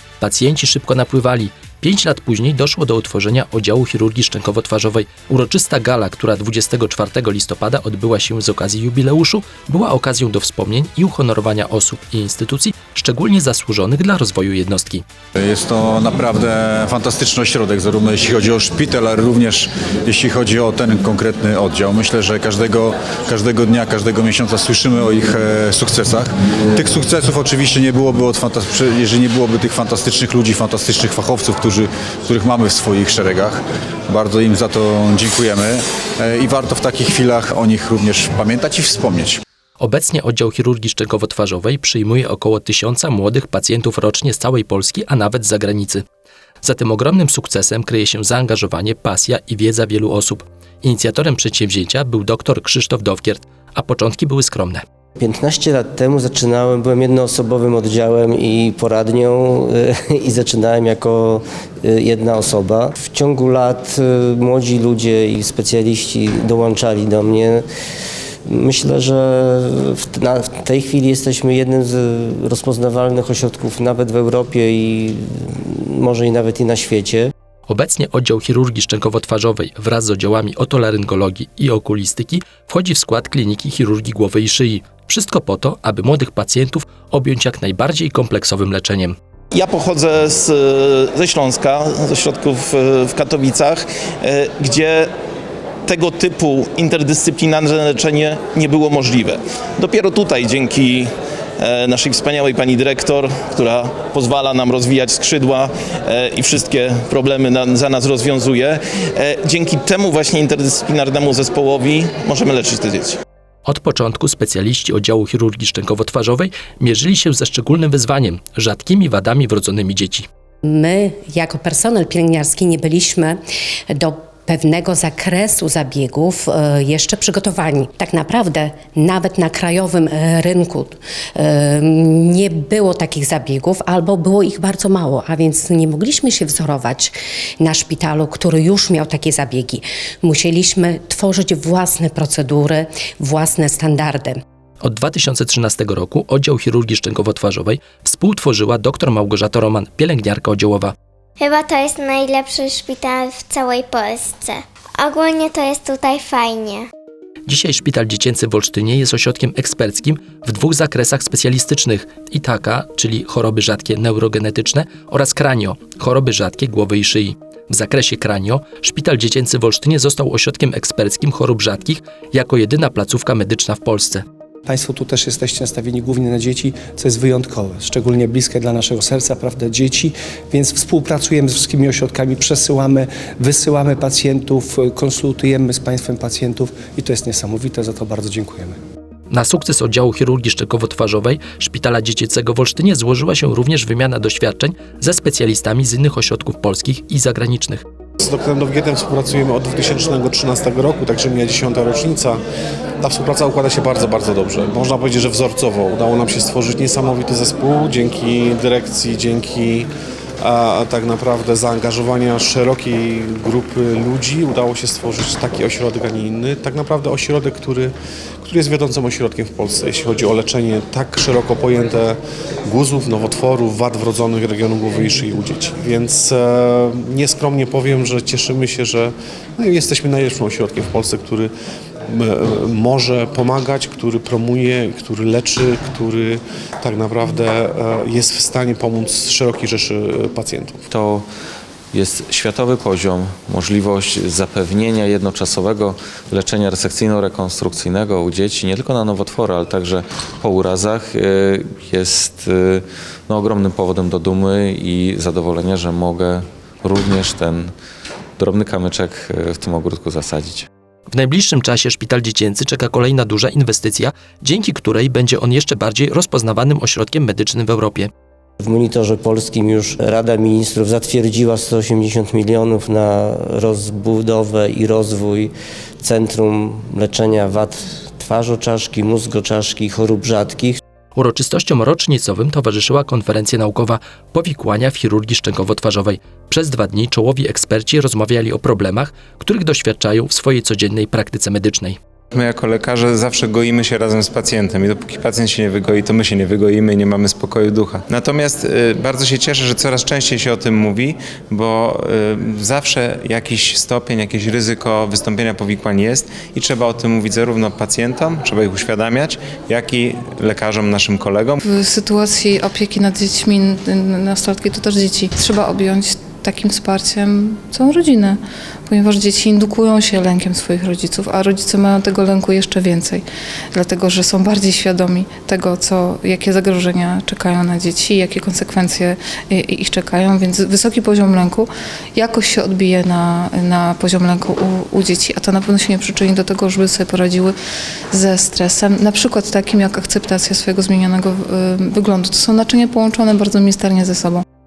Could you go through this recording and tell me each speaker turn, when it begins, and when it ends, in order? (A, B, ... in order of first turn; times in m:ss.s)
0:00.2-0:15.0 A
0:15.4-0:39.4 B
0:39.8-0:46.0 A
0:46.6-0:54.8 A
0:55.2-1:07.6 C
1:08.5-1:17.3 C
1:17.7-1:29.2 A
1:29.5-1:35.1 D
1:35.8-1:53.2 D
1:53.6-2:00.3 A
2:00.6-2:03.4 E
2:03.9-2:24.4 E
2:24.8-2:30.9 A
2:31.4-2:36.9 F
2:37.5-2:54.2 A
2:54.6-3:08.8 G
3:09.3-3:17.8 A
3:18.2-3:22.4 H
3:23.0-3:29.9 H
3:30.4-3:37.9 H
3:38.4-3:51.5 H
3:52.1-4:00.8 H
4:00.9-4:01.2 I
4:01.9-4:17.7 I
4:18.4-4:20.7 I
4:21.1-4:28.1 A
4:28.6-4:40.8 C
4:41.1-4:52.0 A
4:52.3-5:11.6 J
5:11.6-5:37.5 K
5:38.1-5:44.4 K